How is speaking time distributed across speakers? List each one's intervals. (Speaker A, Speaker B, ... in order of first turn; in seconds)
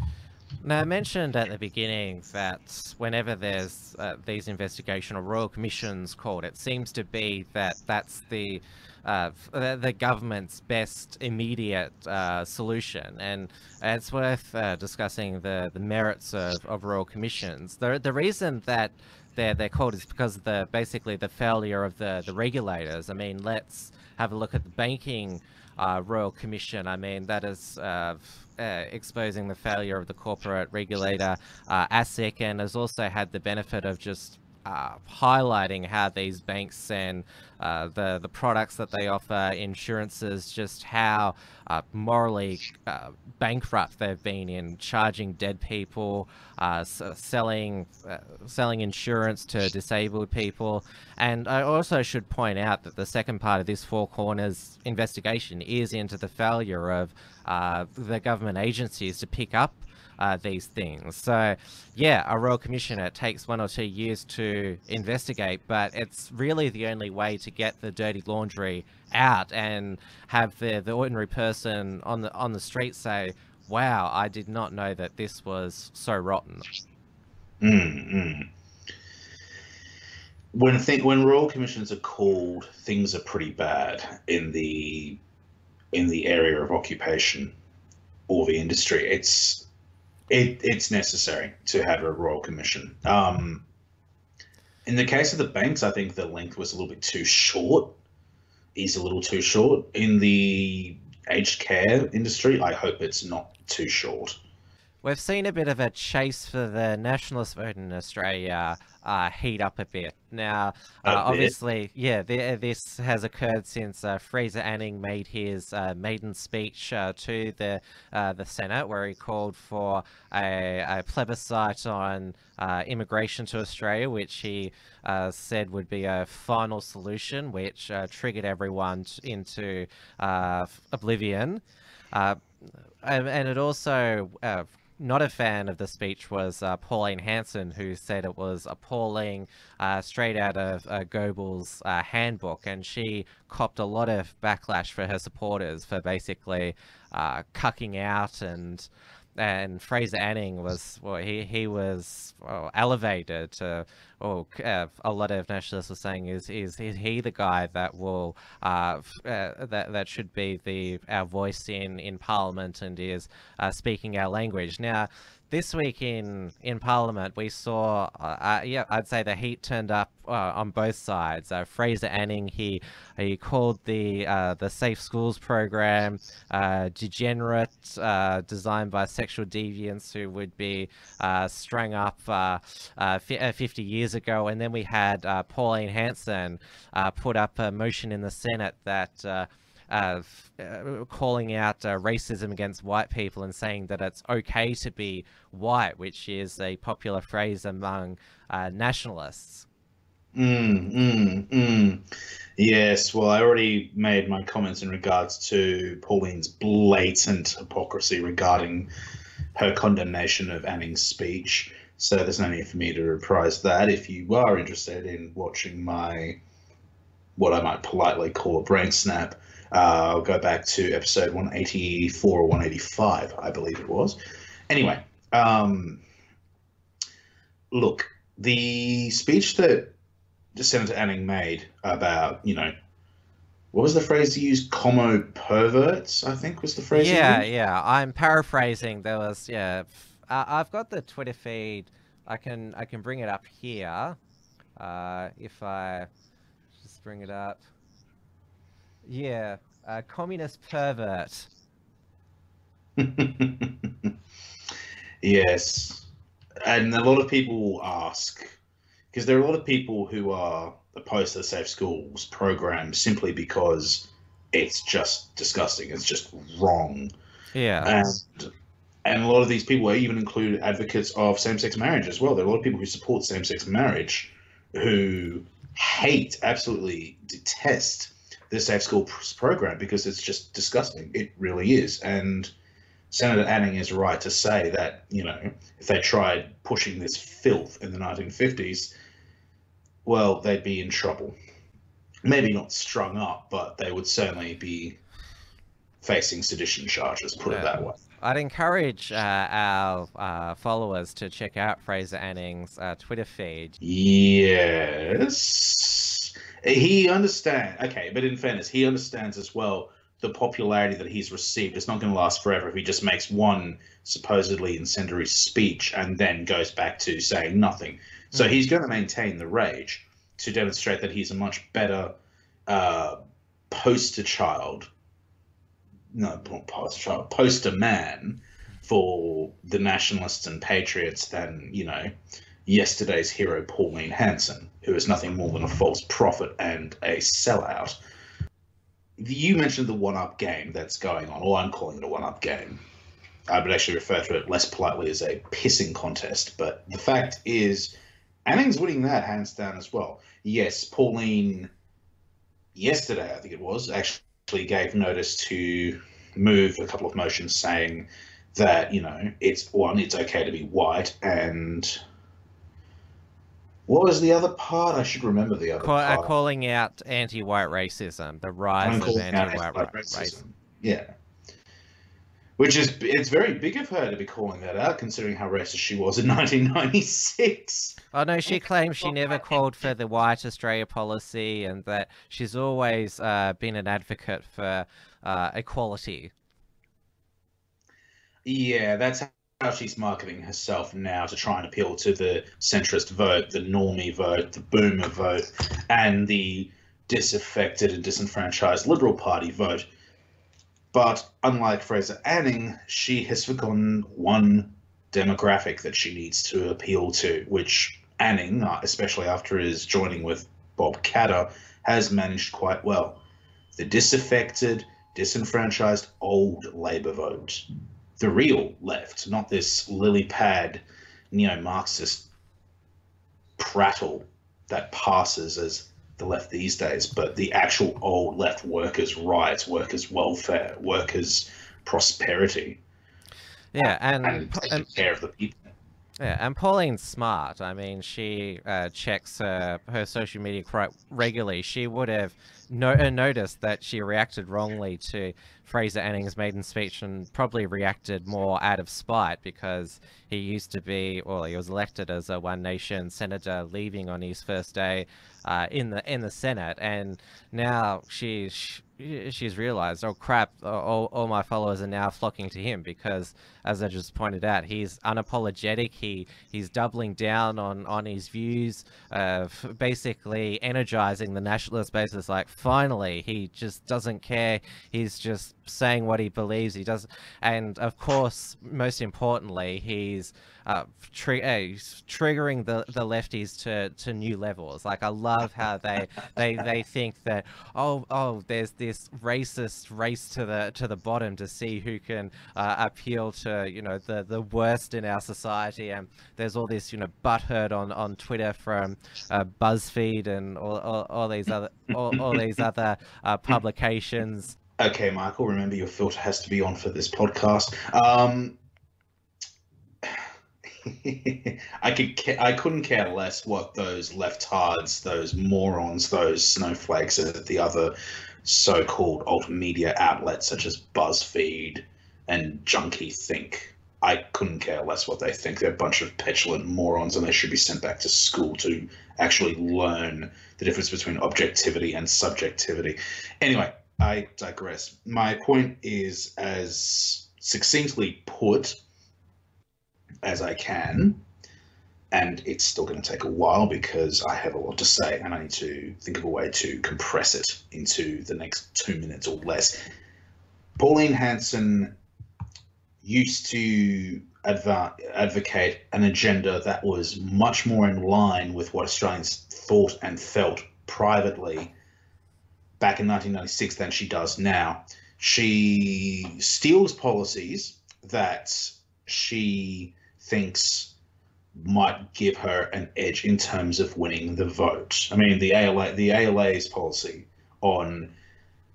Speaker A: 0.6-76.7, 105.0-131.6, 132.1-199.7, 236.9-244.2, 244.8-246.1, 246.8-247.7, 249.1-251.5, 267.5-267.9, 297.5-303.8, 318.3-318.6, 365.8-370.4, 378.1-386.3, 433.7-434.9, 436.2-504.6
Speaker B: 77.6-78.5, 80.5-85.2, 85.9-87.5, 88.3-89.7, 90.3-93.6, 94.8-98.0, 98.7-104.4, 111.0-111.5, 200.3-208.9, 209.5-216.4, 217.4-224.2, 224.7-226.0, 227.7-229.9, 230.5-232.7, 233.7-237.4, 253.0-254.1, 255.2-256.1, 256.6-258.6, 259.1-267.1, 267.8-268.5, 269.0-282.5, 283.1-288.9, 290.0-291.3, 292.2-295.0, 296.0-298.0, 303.8-322.1, 322.7-323.2, 323.7-324.9, 326.1-332.1, 332.6-338.0, 339.2-342.8, 343.5-347.9, 348.4-351.7, 352.7-362.0, 363.9-366.3, 368.8-371.1, 372.6-379.1, 388.4-399.9, 400.9-413.2, 413.8-417.6, 418.2-422.3, 423.6-432.8, 434.2-435.7, 502.1-502.4, 504.8-508.6, 510.0-510.3, 510.8-538.8, 540.2-541.2, 542.1-549.8, 550.8-552.0, 553.0-561.7, 562.8-570.9, 571.5-578.1